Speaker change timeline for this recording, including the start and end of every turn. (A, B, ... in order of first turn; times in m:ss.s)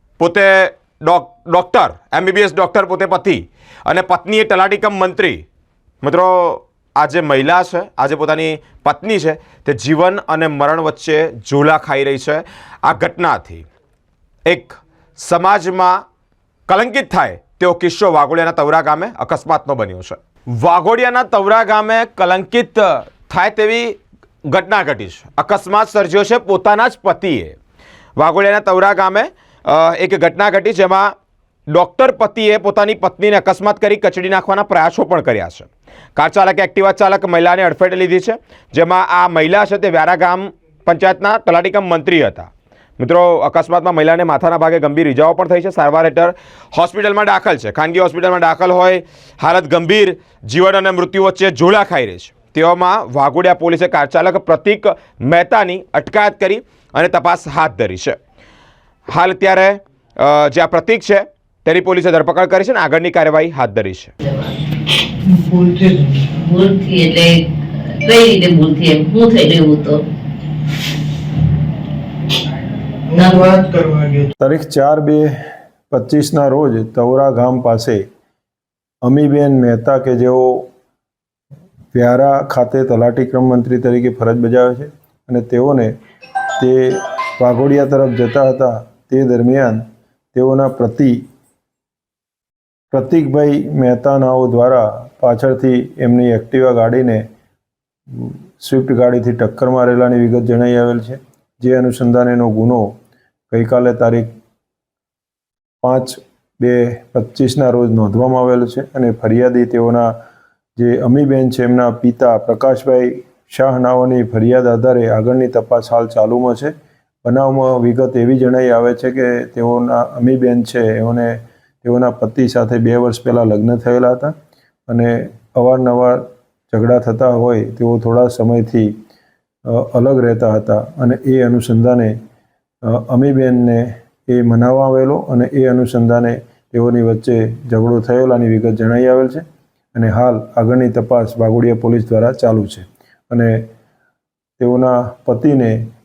0:00.2-0:05.4 A
0:06.0-0:13.6 A
0:14.4-0:16.0 A
0:16.7-0:27.6 A
0:28.2-0:31.1 A
0:31.7-0:58.2 A
0:59.1-1:04.1 A
1:04.2-1:04.6 B
1:05.2-1:06.3 C
1:06.3-1:10.0 B
1:13.0-1:14.3 C
1:13.2-1:13.5 B
1:14.4-1:15.4 D
1:15.9-1:18.0 D
1:19.0-1:20.7 D
1:21.9-1:25.9 D
1:26.6-1:29.8 D
1:30.3-1:31.2 D
1:32.9-1:37.2 D
1:38.1-1:42.9 D
1:43.5-1:44.3 D
1:45.8-1:50.1 D
1:50.8-1:56.7 D
1:57.2-2:04.3 D
2:04.9-2:08.9 D
2:09.6-2:12.1 D
2:12.8-2:23.7 D
2:24.6-2:25.8 D